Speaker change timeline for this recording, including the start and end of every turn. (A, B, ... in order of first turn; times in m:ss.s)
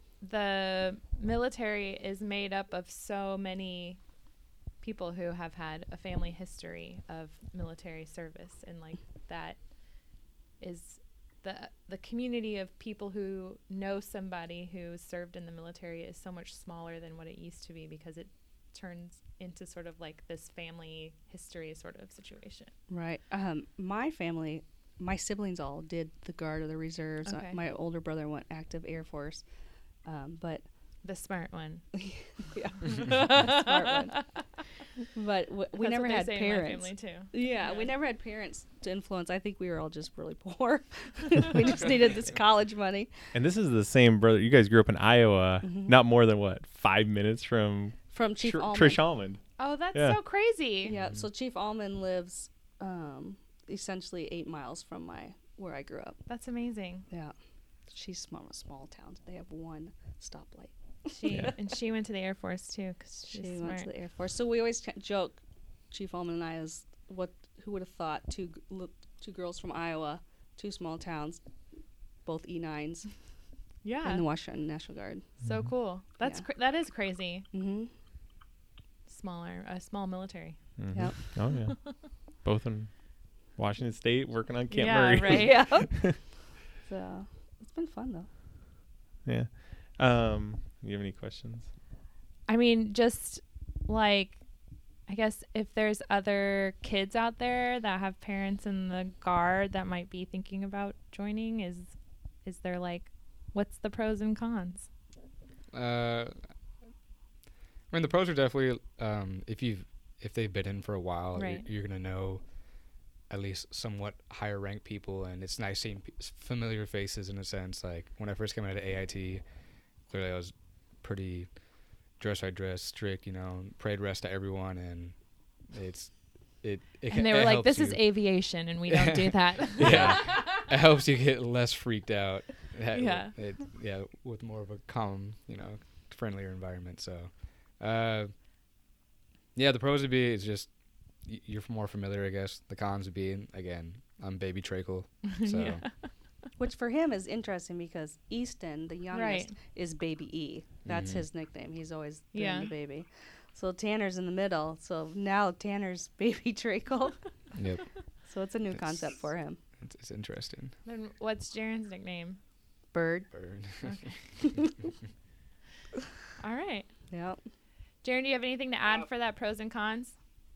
0:00.2-0:04.0 A
0:04.8-0:09.6 A
0:10.6-0:22.7 A
0:22.9-0:29.4 B
0:27.2-0:27.6 A
0:30.0-0:30.6 B
0:31.0-0:31.8 A
0:32.0-0:34.2 B
0:32.8-0:34.4 A
0:35.1-0:43.1 B
0:35.8-0:37.9 A
0:43.3-0:49.4 C
0:45.6-0:46.0 B
0:48.1-0:49.0 B
0:49.6-0:50.9 A
0:50.8-0:56.2 B
0:50.9-0:51.2 D
0:56.3-0:57.0 A
0:57.9-1:01.6 B
1:01.1-1:03.9 A
1:03.2-1:05.4 B
1:05.9-1:11.4 B
1:12.2-1:13.1 B
1:13.8-1:14.2 A
1:14.0-1:15.3 B
1:15.4-1:15.7 C
1:15.4-1:17.4 A
1:17.5-1:17.9 B
1:19.1-1:20.6 A
1:20.8-1:22.9 C
1:20.9-1:21.2 B
1:23.6-1:26.2 C
1:24.7-1:25.6 A
1:25.2-1:26.1 B
1:26.8-1:28.3 B
1:29.2-1:31.7 C
1:32.5-1:34.4 A
1:35.1-1:41.9 A
1:42.4-1:44.9 A
1:45.7-1:46.4 D
1:47.9-1:52.4 D
1:51.4-1:51.6 A
1:53.3-1:59.4 D
2:00.1-2:01.5 D
2:02.2-2:05.2 D
2:05.7-2:08.2 D
2:07.1-2:10.2 A
2:08.9-2:18.3 D
2:09.8-2:10.2 C
2:12.9-2:13.3 A
2:19.5-2:20.7 D
2:21.2-2:25.8 D
2:25.3-2:26.1 A
2:26.6-2:37.2 B
2:29.1-2:29.6 A
2:30.8-2:31.2 D
2:32.3-2:32.7 A
2:37.5-2:37.8 D
2:38.3-2:39.6 B
2:39.8-2:40.7 D
2:40.8-2:42.4 A
2:42.9-2:43.3 B
2:43.3-2:44.0 D
2:43.8-2:44.2 A
2:44.4-2:44.7 B
2:46.4-2:46.9 A
2:47.1-2:47.4 B
2:48.0-2:50.1 A